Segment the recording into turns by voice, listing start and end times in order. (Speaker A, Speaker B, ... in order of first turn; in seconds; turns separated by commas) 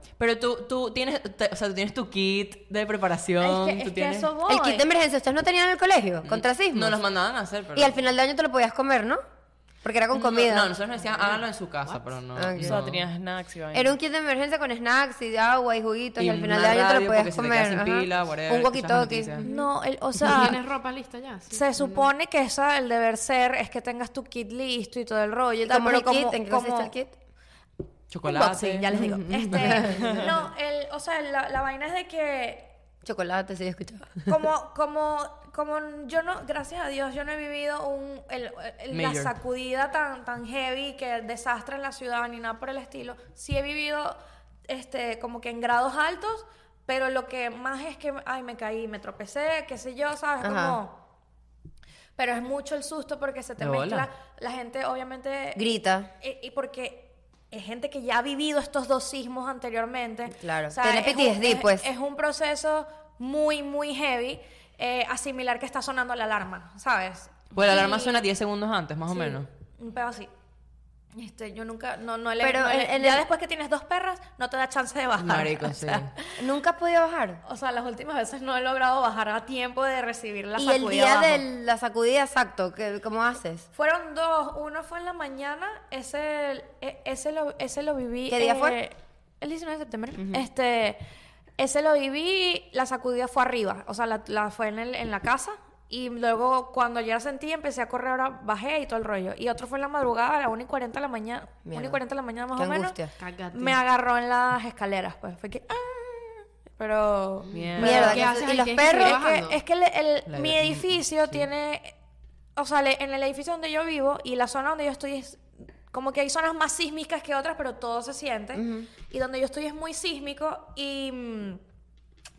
Speaker A: 0.2-4.3, Speaker B: 3.4-4.9, Speaker C: 4.5-7.0, Speaker A: 6.2-8.0, Speaker C: 7.8-9.2, Speaker C: 9.8-10.7, Speaker A: 10.1-13.0, Speaker C: 12.3-12.8, Speaker D: 12.6-13.9, Speaker C: 13.7-19.5, Speaker A: 16.2-19.4, Speaker B: 19.4-20.6, Speaker E: 20.3-22.1, Speaker B: 21.5-26.9, Speaker C: 25.7-27.1, Speaker A: 28.1-29.0, Speaker B: 28.2-32.7, Speaker C: 29.0-30.2, Speaker A: 29.5-30.0, Speaker C: 33.0-34.3, Speaker B: 34.3-51.0, Speaker A: 38.9-39.3, Speaker C: 50.4-50.8, Speaker B: 52.2-55.6, Speaker A: 53.6-54.1, Speaker C: 55.5-56.1, Speaker B: 56.2-68.3, Speaker C: 60.3-61.9, Speaker A: 67.5-69.5, Speaker B: 69.1-70.3, Speaker B: 71.1-76.4, Speaker C: 72.4-73.2, Speaker A: 75.2-76.1, Speaker C: 76.4-77.4, Speaker B: 77.4-81.5, Speaker C: 80.6-83.7, Speaker B: 83.7-91.0, Speaker C: 88.3-88.8, Speaker C: 90.2-90.4, Speaker B: 91.6-103.0, Speaker C: 101.7-102.0, Speaker C: 102.6-103.1, Speaker E: 103.2-103.8, Speaker B: 103.5-111.9, Speaker D: 107.5-108.1, Speaker E: 107.6-109.6, Speaker C: 107.8-109.2, Speaker A: 110.3-111.5, Speaker B: 112.6-121.6, Speaker C: 118.5-118.9